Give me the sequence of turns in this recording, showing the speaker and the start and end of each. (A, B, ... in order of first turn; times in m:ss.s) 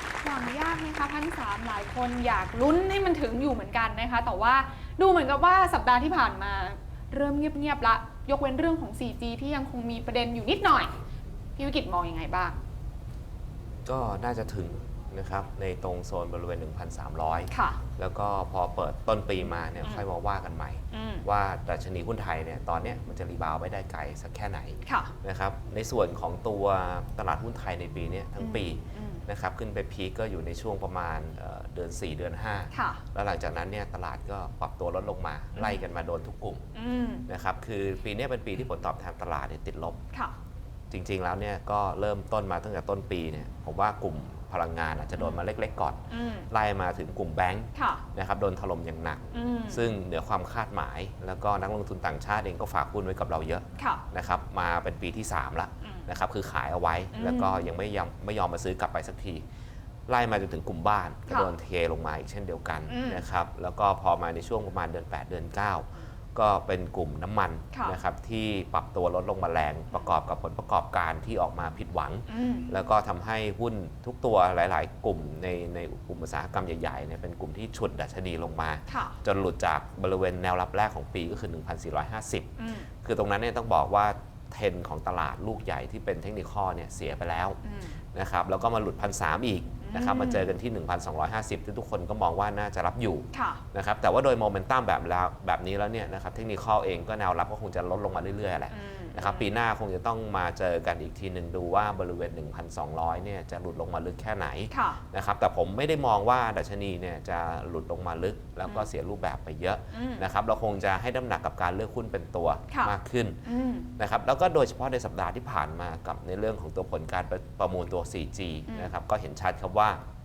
0:00.2-0:11.0 A
0:11.6-0:12.6 A
0:13.8-0:36.6 B
0:17.5-0:17.8 A
0:20.9-0:21.2 A
0:24.8-0:25.1 A
0:28.4-0:29.2 A
0:32.7-0:33.0 A
0:35.6-0:35.9 A
0:36.7-0:37.2 A
0:37.3-0:40.0 B
0:40.9-0:59.4 B
0:46.1-0:46.5 A
0:47.7-0:48.0 A
0:49.3-0:49.9 A
0:53.8-0:54.0 A
0:55.8-0:56.1 A
0:57.1-0:57.6 A
1:00.1-1:27.6 B
1:02.9-1:03.2 A
1:07.7-1:08.0 A
1:12.3-1:12.7 A
1:18.9-1:19.2 A
1:22.6-1:22.9 A
1:27.6-1:28.0 A
1:28.1-1:53.4 B
1:29.8-1:30.5 A
1:33.3-1:33.6 A
1:38.7-1:39.5 A
1:44.7-1:45.0 A
1:49.9-1:50.3 A
1:52.7-1:53.9 A
1:54.0-2:00.0 B
1:58.7-1:58.9 A